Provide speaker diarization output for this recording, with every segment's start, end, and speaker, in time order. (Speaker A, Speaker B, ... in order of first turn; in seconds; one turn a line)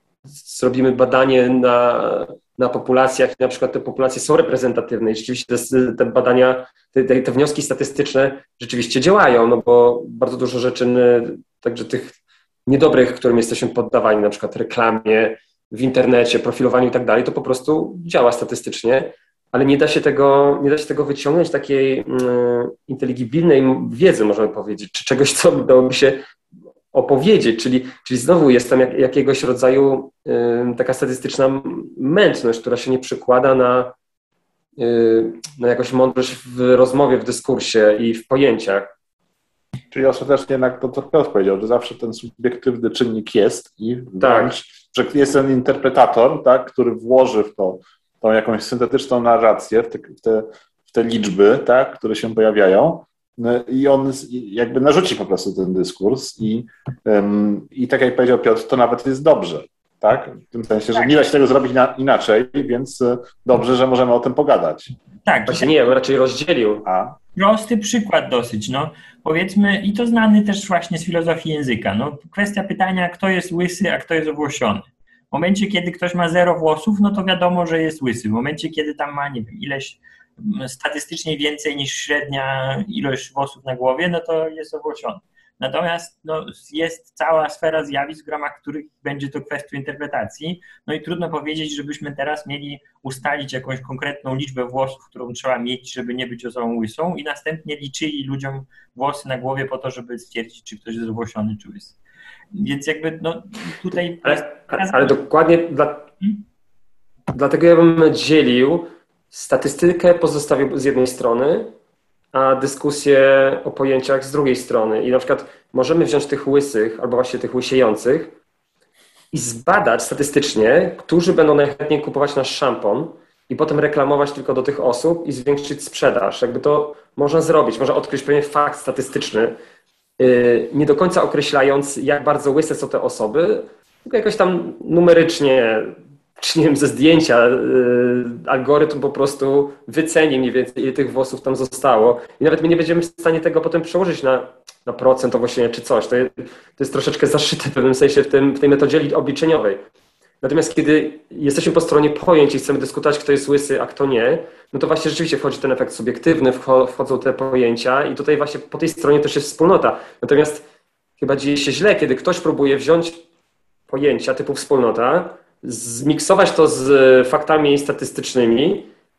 Speaker A: 0.3-26.2
Speaker A: 26.9-33.9
Speaker A: 34.8-38.9
Speaker B: 39.9-64.9
Speaker A: 44.2-44.5
Speaker C: 65.2-65.7
Speaker A: 65.5-66.9
Speaker B: 66.8-67.2
Speaker C: 67.3-102.0
Speaker C: 102.5-105.2
Speaker A: 104.2-106.1
Speaker A: 107.3-111.7
Speaker A: 112.3-118.3
Speaker A: 119.3-129.6
Speaker A: 130.2-149.8
Speaker A: 150.4-160.6
Speaker A: 161.2-163.2
Speaker A: 163.9-168.9